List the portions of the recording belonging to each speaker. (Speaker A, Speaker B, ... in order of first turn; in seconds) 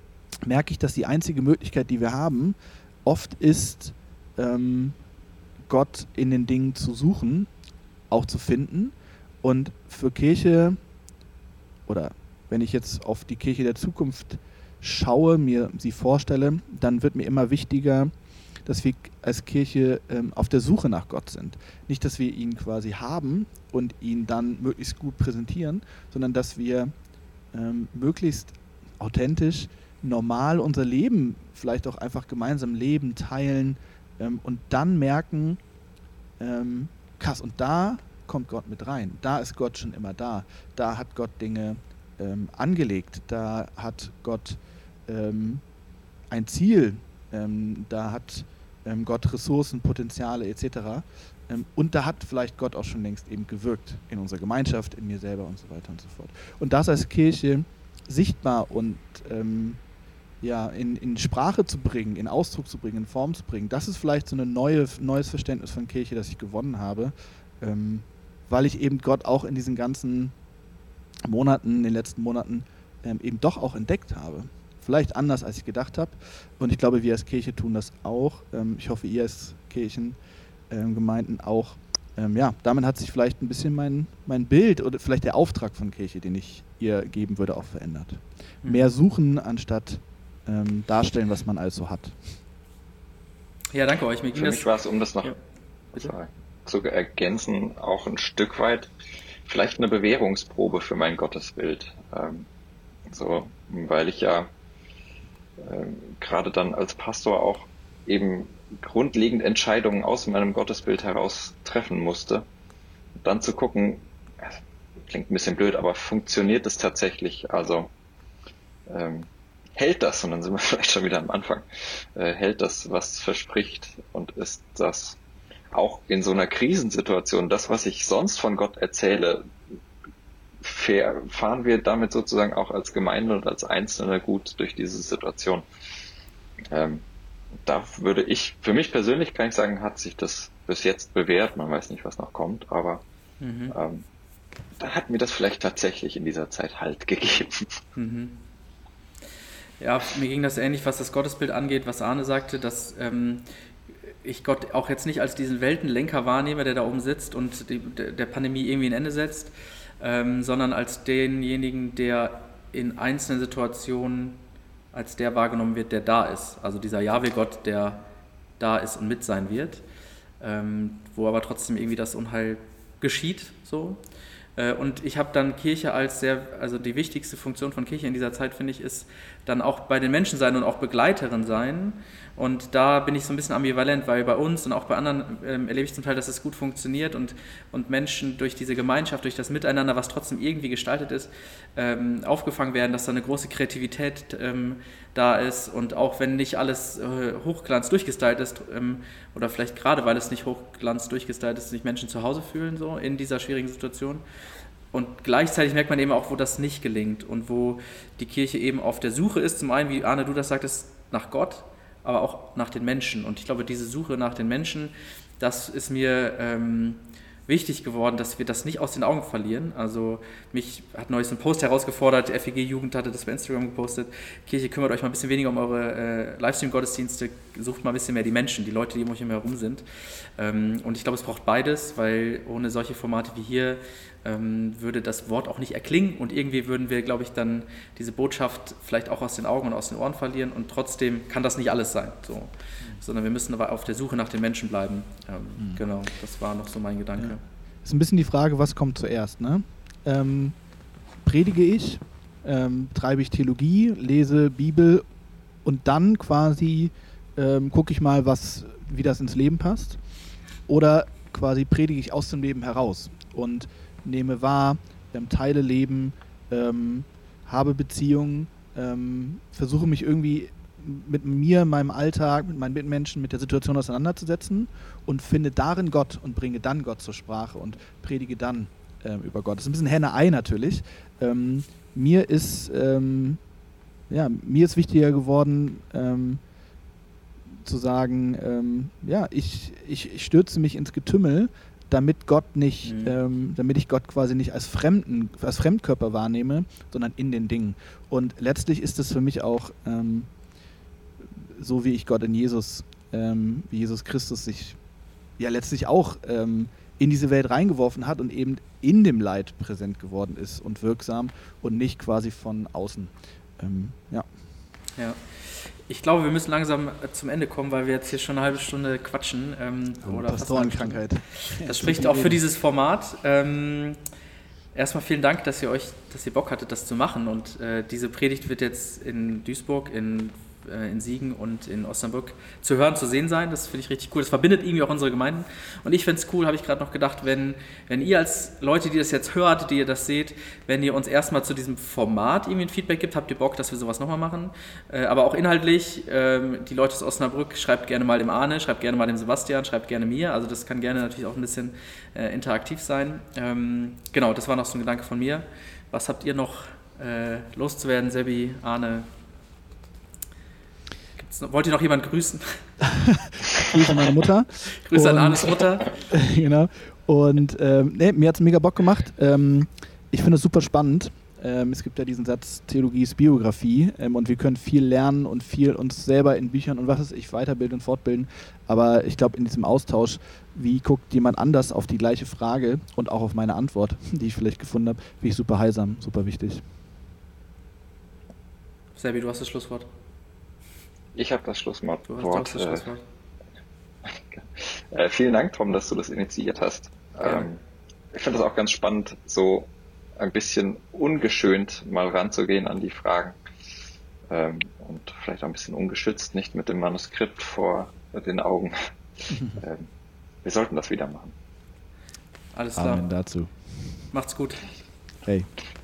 Speaker A: 0.4-5.0, 5.7-7.5, 8.1-10.8, 11.9-18.1, 18.6-26.9, 27.5-35.6, 36.4-45.6, 46.3-59.8, 60.4-70.3, 71.2-80.2, 80.7-92.3, 247.2-250.6, 251.2-255.1, 255.7-260.0, 260.7-283.4, 284.1-286.4, 287.6-300.3, 301.2-304.8, 305.4-314.3, 320.0-322.4, 362.8-386.6, 409.3-409.6, 412.8-414.1, 415.2-415.5
Speaker B: 88.6-88.9, 93.7-94.7, 143.4-143.8, 148.0-148.4, 149.8-153.4, 154.2-164.4, 164.9-168.0, 168.6-169.8, 170.4-174.0, 174.6-204.2, 204.9-229.8, 230.4-247.4, 292.8-293.2, 315.0-324.0, 324.8-359.1, 361.2-362.6, 364.9-365.9, 389.0-389.9, 392.1-393.0, 397.2-397.5, 412.5-413.1, 414.1-414.7
Speaker C: 94.3-95.3, 95.9-98.9, 99.5-102.5, 103.1-104.5, 105.6-112.5, 113.2-117.9, 118.9-125.2, 125.7-129.5, 130.6-135.7, 136.7-137.0, 137.7-143.0, 143.7-144.1, 144.8-147.8, 391.2-392.9, 394.3-397.6, 398.1-403.4, 404.3-409.9, 410.4-411.3